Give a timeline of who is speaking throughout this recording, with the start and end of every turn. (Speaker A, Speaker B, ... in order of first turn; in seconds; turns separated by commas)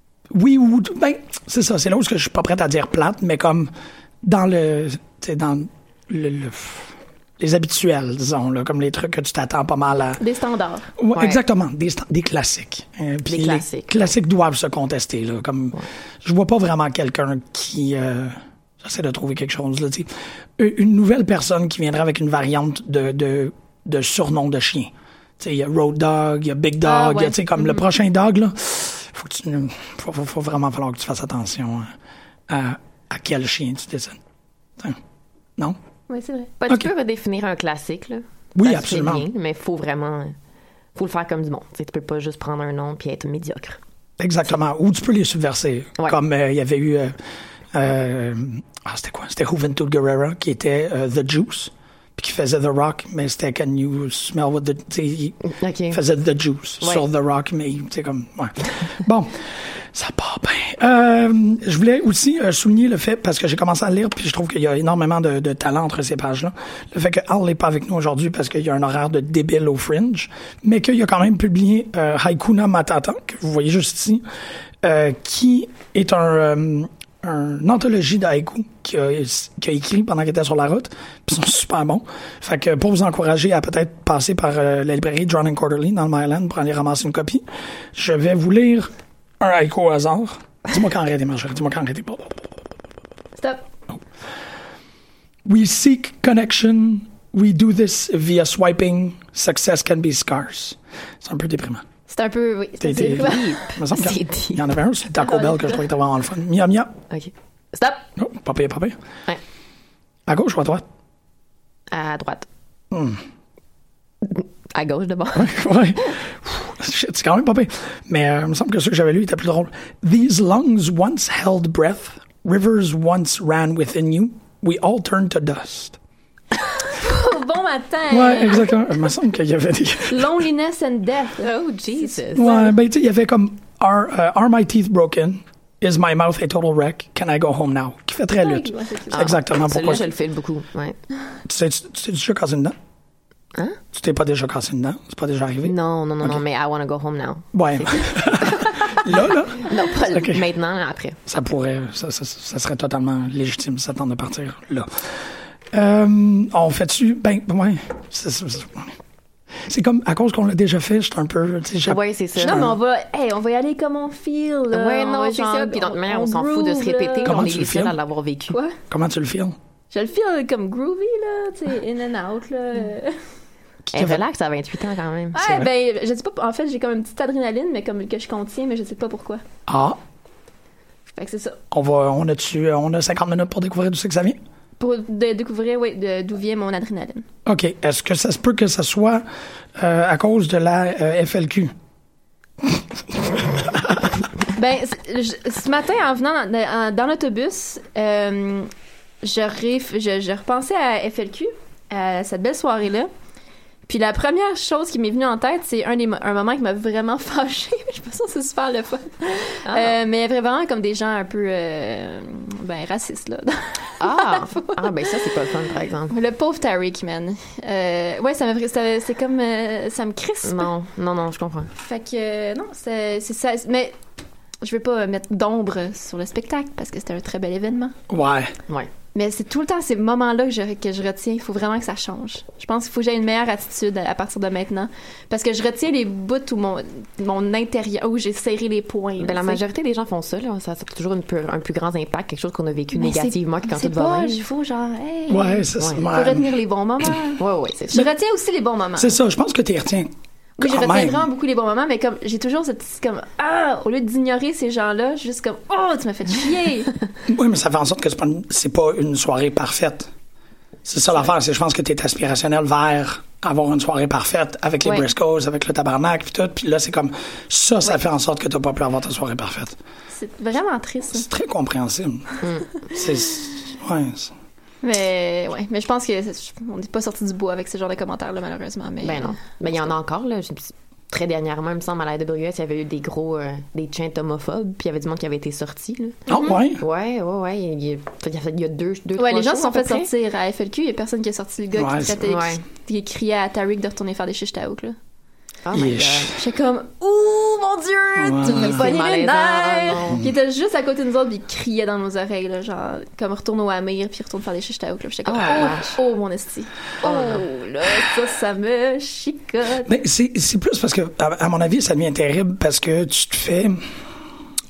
Speaker A: 0.3-3.7, Speaker A: 4.2-10.2, Speaker B: 10.2-10.9, Speaker A: 11.0-31.9, Speaker C: 11.1-11.4, Speaker C: 13.2-14.1, Speaker B: 26.8-27.3, Speaker A: 32.5-34.2, Speaker B: 36.1-36.5, Speaker C: 36.6-40.3, Speaker A: 38.5-39.2, Speaker C: 40.9-43.8, Speaker A: 44.2-47.2, Speaker A: 47.7-55.4, Speaker C: 55.4-56.0, Speaker A: 55.9-74.2, Speaker A: 74.8-92.4, Speaker A: 95.5-101.8, Speaker B: 102.1-103.5, Speaker A: 102.8-107.0, Speaker C: 103.1-104.7, Speaker B: 105.2-105.8, Speaker C: 107.1-108.0, Speaker A: 108.2-109.0, Speaker A: 110.3-110.8, Speaker C: 111.9-112.5, Speaker A: 112.9-113.2, Speaker C: 114.2-115.5, Speaker A: 115.3-126.0, Speaker B: 126.8-128.7, Speaker A: 128.1-130.3, Speaker B: 130.1-131.5, Speaker C: 131.4-132.6, Speaker A: 132.3-140.1, Speaker B: 132.4-132.6, Speaker B: 138.4-139.3, Speaker C: 139.1-141.0, Speaker A: 141.4-142.8, Speaker C: 143.5-143.8, Speaker A: 143.9-146.4, Speaker C: 145.6-149.0, Speaker A: 147.5-150.4, Speaker C: 149.6-151.2, Speaker A: 151.3-159.0, Speaker A: 159.6-162.7, Speaker C: 161.8-162.7, Speaker B: 162.4-167.4, Speaker C: 164.7-168.6, Speaker A: 167.2-167.9, Speaker A: 168.9-169.6, Speaker B: 169.9-173.2, Speaker A: 173.9-174.2, Speaker C: 173.9-175.5, Speaker B: 175.3-179.4, Speaker A: 175.4-175.7, Speaker A: 179.7-180.0, Speaker B: 181.1-181.6, Speaker A: 181.7-184.4, Speaker B: 184.8-187.2, Speaker A: 187.4-189.2, Speaker A: 189.8-191.7, Speaker A: 193.3-194.1, Speaker B: 194.5-198.7, Speaker B: 199.2-203.1, Speaker B: 203.9-215.1, Speaker C: 209.6-209.9, Speaker C: 214.0-216.1, Speaker B: 216.1-220.7, Speaker C: 220.4-221.7, Speaker B: 221.8-223.9, Speaker B: 224.6-227.9, Speaker A: 228.1-228.5, Speaker B: 229.1-239.6, Speaker C: 239.2-244.4, Speaker B: 242.9-249.1, Speaker A: 245.3-246.5, Speaker C: 247.4-248.1, Speaker A: 249.0-251.3, Speaker B: 250.6-256.9, Speaker A: 257.3-260.1, Speaker A: 260.9-269.8, Speaker B: 270.1-271.3, Speaker A: 271.1-274.3, Speaker C: 272.4-272.8, Speaker B: 274.8-279.4, Speaker C: 279.0-290.1, Speaker A: 286.3-286.8, Speaker B: 286.3-286.5, Speaker B: 289.2-294.9, Speaker A: 291.8-292.2, Speaker C: 292.2-292.6, Speaker C: 295.6-296.3, Speaker A: 295.7-296.3, Speaker B: 296.3-309.9, Speaker A: 298.2-298.9, Speaker C: 298.4-300.2, Speaker C: 305.2-306.0, Speaker C: 307.0-307.4, Speaker A: 309.8-313.8